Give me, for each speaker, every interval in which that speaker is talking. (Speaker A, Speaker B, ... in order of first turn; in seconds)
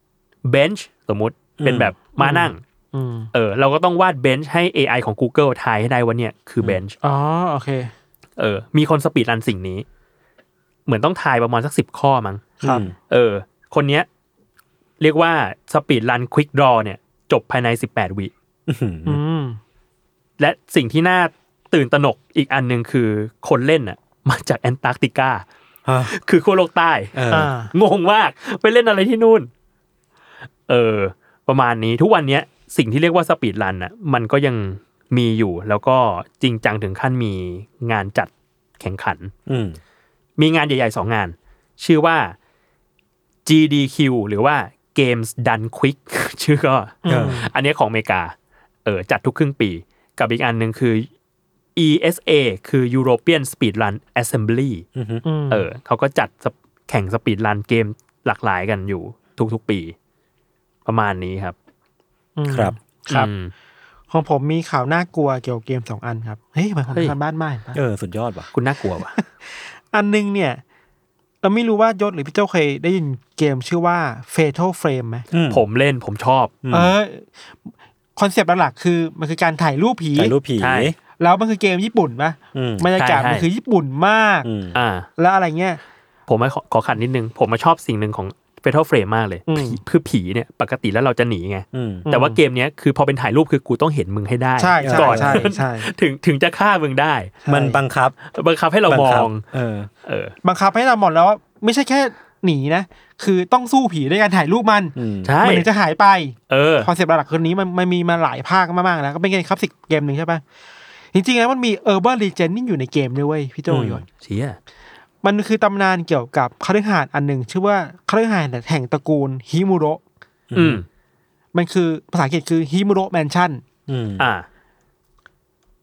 Speaker A: 0.5-2.6, 3.3-7.0, 8.4-9.8, 10.9-12.5, 13.1-14.1, 15.0-18.3, 20.4-25.5, 26.1-27.2, 27.7-29.5, 30.7-39.3, 40.4-42.4, 43.5-51.1, 51.8-54.9, 55.5-60.0, 60.9-61.6, 63.1-63.5, 68.5-69.2, 75.5-76.5, 80.6-80.9, 83.0-83.5, 84.7-85.1, 86.3-97.3, 98.3-99.4, 100.0-100.3, 105.2-105.7, 106.5-106.9, 114.1-114.6, 120.5-120.9, 124.2-124.5
Speaker B: 1.6-1.9, 12.6-12.9, 18.7-19.2, 25.9-26.1, 27.1-27.5, 39.5-39.8, 47.1-47.5, 55.0-55.2, 62.5-62.8, 67.7-68.5, 75.3-75.6, 76.6-76.9, 80.2-80.9, 82.5-82.9, 84.4-84.8, 91.7-92.1, 94.8-95.5, 97.5-98.2, 98.9-99.9, 105.0-105.3, 113.7-114.0, 120.5-120.8, 123.9-124.2
Speaker C: 2.2-3.3, 7.0-7.9, 12.6-12.9, 19.1-19.6, 27.3-27.7, 47.0-47.5, 55.2-55.7, 62.4-63.3, 64.1-67.8, 69.2-70.6, 71.4-75.3, 76.7-80.3, 81.2-84.5, 85.2-85.8, 89.5-89.8, 92.1-92.4, 94.6-95.9, 97.4-97.8, 100.4-110.4, 111.1-114.0, 115.2-120.0, 121.5-123.6